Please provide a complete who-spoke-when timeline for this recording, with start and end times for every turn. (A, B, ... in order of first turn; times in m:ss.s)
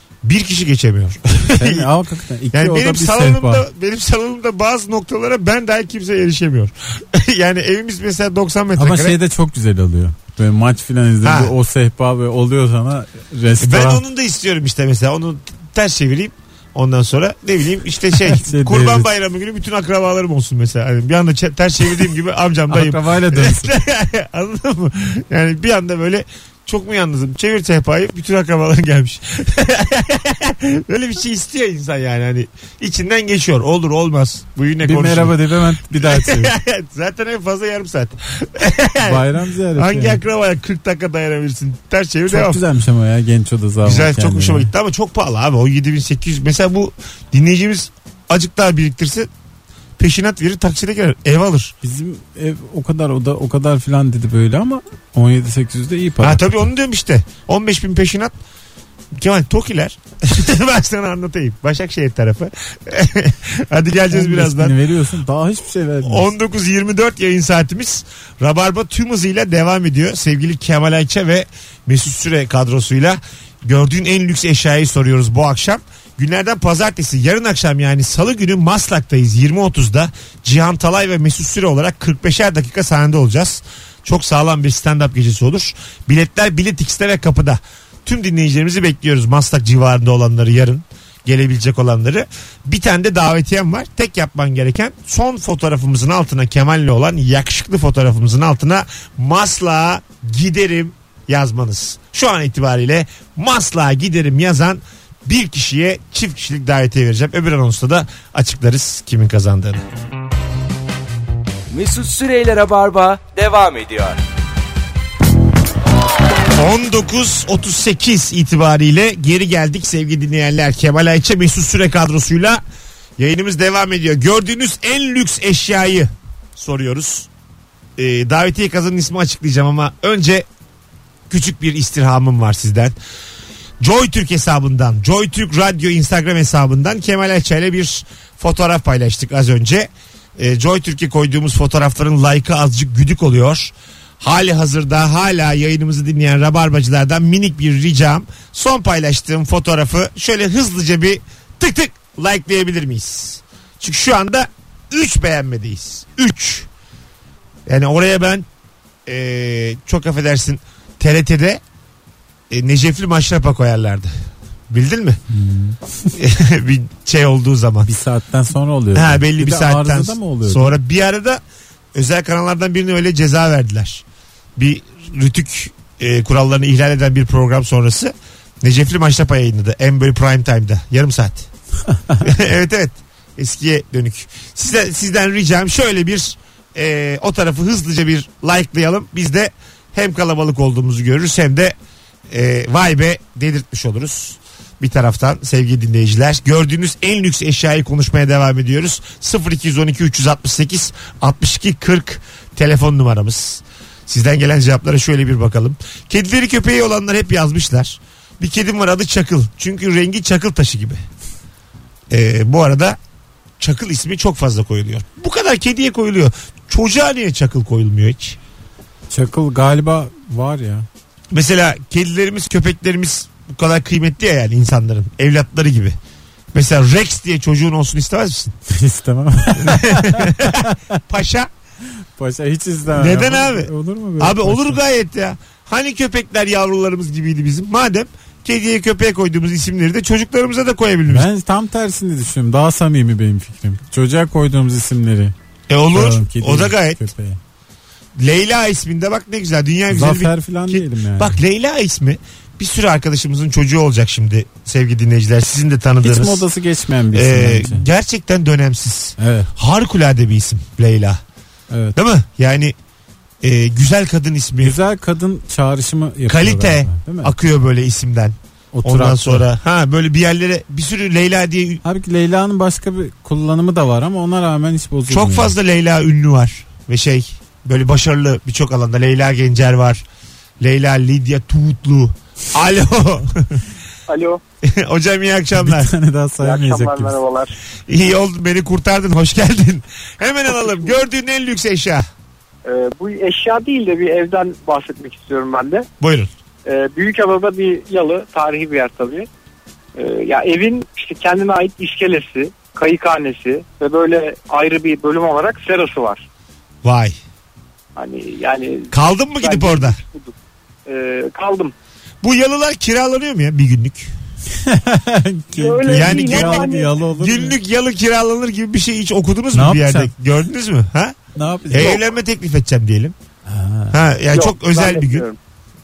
0:00.2-0:01.9 A
0:01.6-0:03.6 B
0:02.5-0:09.2 A
0:08.8-0:14.0 B
0:11.2-0:11.5 A
0:13.6-0:35.4 A
0:18.2-0:19.1 B
0:22.7-0:23.7 B
0:34.8-0:36.5 B
0:35.9-0:42.6 A
0:39.0-0:40.2 B
0:42.3-0:44.7 B
0:43.8-0:49.3 A
0:50.0-0:51.7 A
0:51.8-0:56.7 B
0:56.2-0:58.3 A
0:59.2-1:04.8 A
1:04.1-1:06.3 B
1:06.0-1:49.8 A
1:51.7-1:54.2 C
1:56.5-2:02.6 A
2:03.2-2:07.3 A
2:08.0-2:10.4 A
2:11.3-2:13.0 A
2:13.8-2:36.7 A
2:37.6-2:38.4 A
2:39.0-2:41.6 A
2:42.5-2:44.1 A
2:44.7-2:45.2 A
2:45.3-2:45.8 B
2:46.1-2:47.9 A
2:47.8-2:50.8 B
2:48.9-2:51.4 A
2:51.9-2:54.0 A
2:54.6-3:01.5 A
3:02.2-3:11.8 A
3:12.3-3:31.0 A
3:32.1-3:33.0 A
3:33.6-3:38.4 A
3:39.1-3:40.9 B
3:41.3-3:46.0 A
3:46.5-3:48.5 A
3:48.7-3:50.8 B
3:49.6-3:51.5 A
3:52.2-3:54.8 B
3:52.9-4:01.3 A
4:01.1-4:05.3 B
4:05.7-4:07.0 A
4:05.9-4:07.4 B
4:08.2-4:16.4 A
4:09.9-4:11.4 B
4:16.0-4:17.8 B
4:17.1-4:21.2 A
4:19.2-4:19.5 B
4:21.7-4:22.0 B
4:21.9-4:22.7 A
4:23.4-4:24.8 A
4:24.6-4:27.3 B
4:26.3-4:31.8 A
4:28.7-4:29.4 B
4:31.8-4:35.5 B
4:35.1-4:40.0 A
4:40.6-4:43.6 A
4:44.1-4:44.4 D
4:44.6-4:45.9 A
4:45.6-4:47.2 B
4:46.4-4:47.5 D
4:47.9-4:52.0 A
4:50.6-4:50.9 D
4:52.6-4:55.9 D
4:56.0-4:56.3 A
4:56.6-4:59.3 D
4:59.9-5:06.2 D
5:06.8-5:07.2 A
5:08.0-5:10.3 D
5:08.9-5:10.0 A
5:10.8-5:11.7 D
5:12.2-5:14.1 A
5:14.6-5:17.6 B
5:15.5-5:16.9 D
5:15.9-5:21.2 A
5:19.5-5:20.1 B
5:21.4-5:22.0 B
5:21.7-5:23.1 A
5:23.4-5:24.0 B
5:23.9-5:25.2 A
5:24.3-5:25.4 D